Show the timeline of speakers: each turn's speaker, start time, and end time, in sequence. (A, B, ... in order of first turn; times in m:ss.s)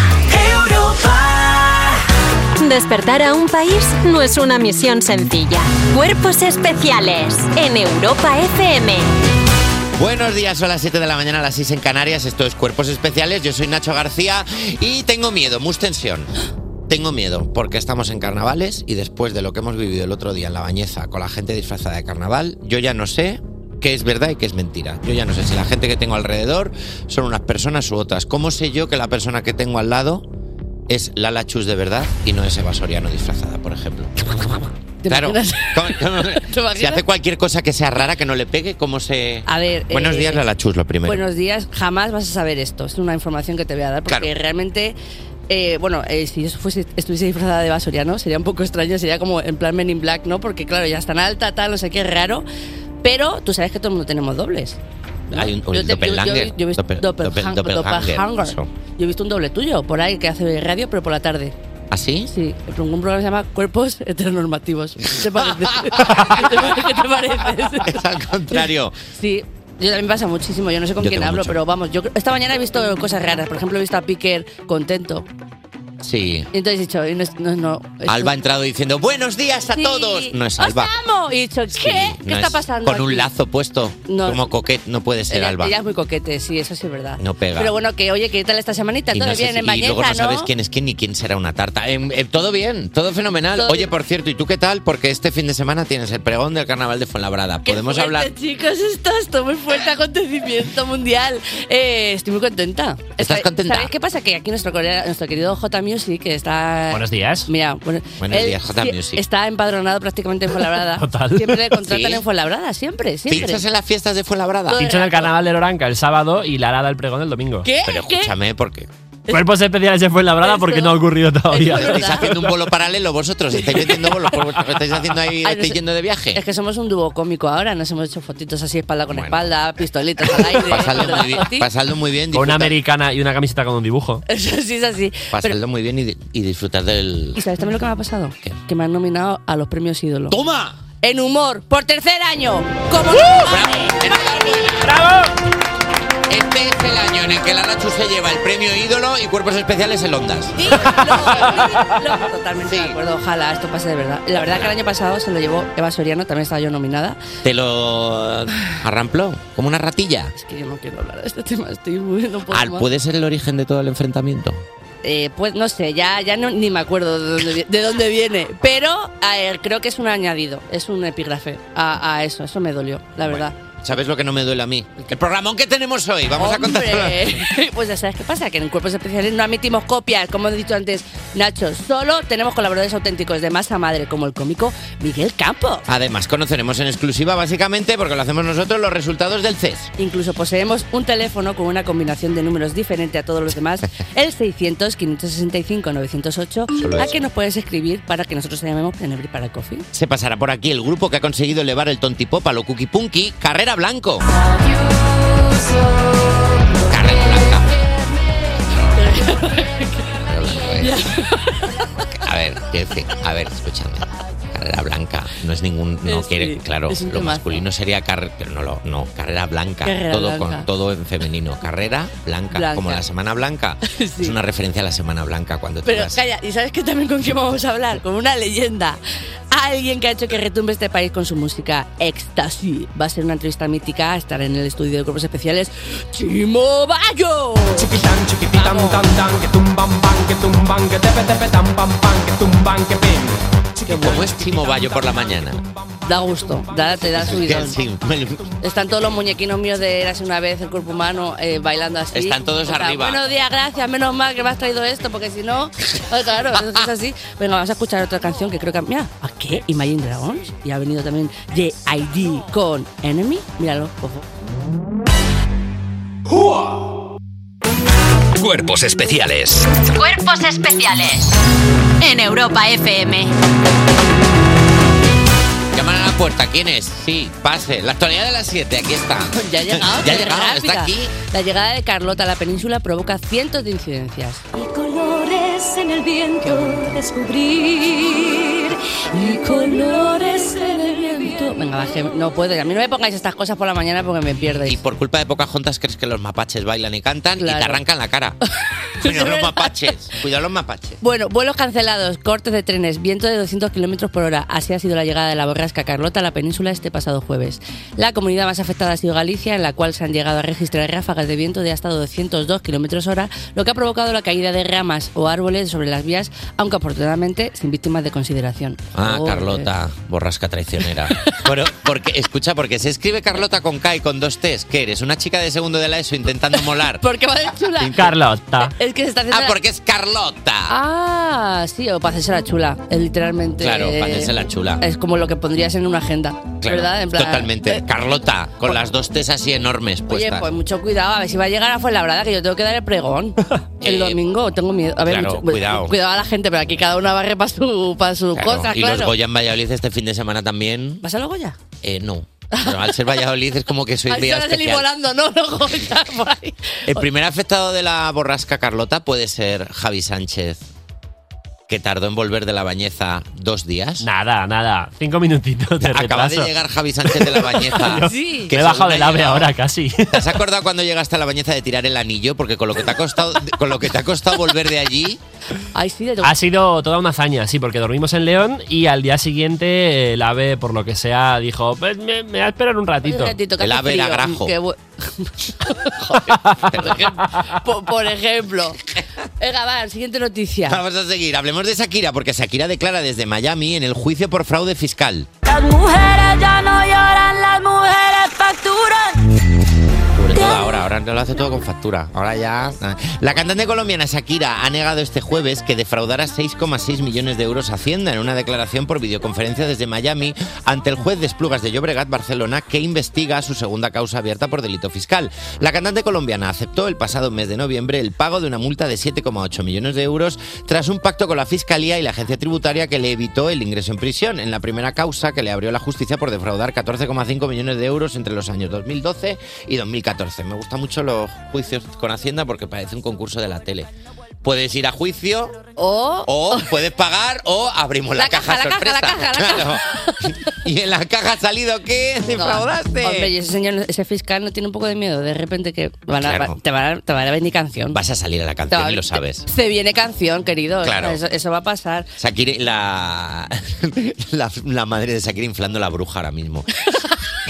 0:00.4-0:01.7 A
0:02.6-0:09.1 B
0:10.0-0:16.3 C
0:16.9-0:30.2 C
0:30.9-0:34.1 C
0:34.3-0:37.0 D
0:35.1-0:41.2 C
0:39.4-0:40.4 D
0:41.0-0:45.0 D
0:45.5-0:52.4 D
0:53.0-0:54.8 D
0:55.3-0:58.7 C
0:55.3-1:01.6 D
1:01.9-1:02.3 C
1:02.3-1:07.9 D
1:05.7-1:06.7 C
1:07.8-1:09.0 C
1:08.5-1:15.3 D
1:11.0-1:11.6 C
1:16.0-1:16.5 C
1:16.5-1:18.3 D
1:18.1-1:20.9 C
1:19.7-1:23.3 D
1:21.7-1:25.8 C
1:24.1-1:24.4 D
1:25.3-1:30.5 D
1:27.2-1:27.7 C
1:29.1-1:38.3 C
1:33.6-1:33.9 D
1:37.6-1:53.6 D
1:43.2-1:43.9 C
1:46.9-1:47.5 E
1:48.2-1:49.2 C
1:50.9-1:51.7 E
1:51.8-1:52.2 C
1:53.3-1:55.0 C
1:54.7-1:55.3 D
1:54.8-1:57.7 E
1:57.6-1:58.3 D
1:57.8-1:58.9 C
1:59.3-2:02.2 E
2:00.4-2:02.5 D
2:01.7-2:06.4 C
2:03.6-2:04.1 D
2:05.4-2:05.8 D
2:06.3-2:11.7 D
2:09.1-2:09.5 C
2:10.3-2:12.7 C
2:12.3-2:14.2 E
2:14.3-2:15.6 D
2:15.3-2:17.4 C
2:17.4-2:20.4 D
2:20.3-2:20.7 C
2:21.0-2:24.7 D
2:23.4-2:24.9 C
2:26.3-2:30.6 C
2:30.6-2:37.2 D
2:32.7-2:33.0 C
2:34.4-2:34.7 C
2:37.4-2:40.3 C
2:40.3-2:42.8 D
2:42.5-2:44.6 C
2:45.0-2:53.5 D
2:53.2-2:57.4 C
2:56.4-3:05.8 D
3:05.9-3:09.9 C
3:10.0-3:19.9 D
3:16.8-3:17.2 C
3:19.9-3:24.2 C
3:26.9-3:27.8 C
3:28.7-3:29.0 C
3:28.9-3:30.1 D
3:30.2-3:31.0 C
3:30.8-3:31.8 D
3:32.2-3:46.2 C
3:36.1-3:37.6 D
3:39.8-3:40.7 D
3:42.5-3:43.0 D
3:43.8-3:44.3 D
3:45.8-3:49.0 D
3:49.5-3:57.9 D
3:57.8-4:07.6 F
3:58.5-3:59.0 D
4:03.9-4:05.6 C
4:06.0-4:07.8 D
4:07.2-4:08.4 C
4:08.6-4:24.2 D
4:12.1-4:13.2 C
4:28.4-4:29.7 A
4:29.9-4:31.3 B
4:32.0-4:33.3 B
4:35.7-4:41.1 C
4:39.4-4:44.4 D
4:44.5-4:51.3 G
4:46.7-4:46.9 D
4:49.1-4:50.1 D
4:50.8-4:54.8 D
4:54.6-4:58.4 C
4:57.4-4:57.8 D
4:59.0-4:59.7 D
4:59.0-5:01.0 C
5:01.0-5:19.7 D
5:18.9-5:27.0 C
5:21.1-5:21.4 D
5:27.0-5:28.1 D
5:27.9-5:28.7 E
5:28.7-5:29.6 D
5:29.3-5:30.7 C
5:30.7-5:37.8 D
5:33.6-5:34.8 C
5:36.6-5:40.4 C
5:40.1-5:49.1 D
5:43.8-5:44.2 C
5:45.0-5:45.9 C
5:48.4-5:51.0 C
5:51.0-5:51.6 D
5:51.8-5:54.9 C
5:52.5-5:52.9 D
5:54.1-5:57.1 D
5:56.9-6:00.6 C
6:01.7-6:04.1 C
6:04.0-6:06.5 E
6:05.8-6:09.5 C
6:07.7-6:10.2 E
6:07.8-6:08.5 D
6:10.1-6:15.2 C
6:15.7-6:16.4 D
6:16.2-6:23.4 E
6:23.0-6:28.8 D
6:23.6-6:24.5 C
6:26.7-6:27.0 C
6:29.4-6:30.8 D
6:30.7-6:35.3 C
6:35.4-6:39.2 H
6:40.2-7:13.9 C
7:14.4-7:15.6 C
7:15.8-7:16.7 D
7:16.2-7:23.3 C
7:18.2-7:20.3 D
7:22.4-7:28.0 D
7:26.2-7:26.6 C
7:27.9-7:29.4 C
7:28.7-7:32.1 D
7:30.8-7:31.2 C
7:32.2-7:36.7 C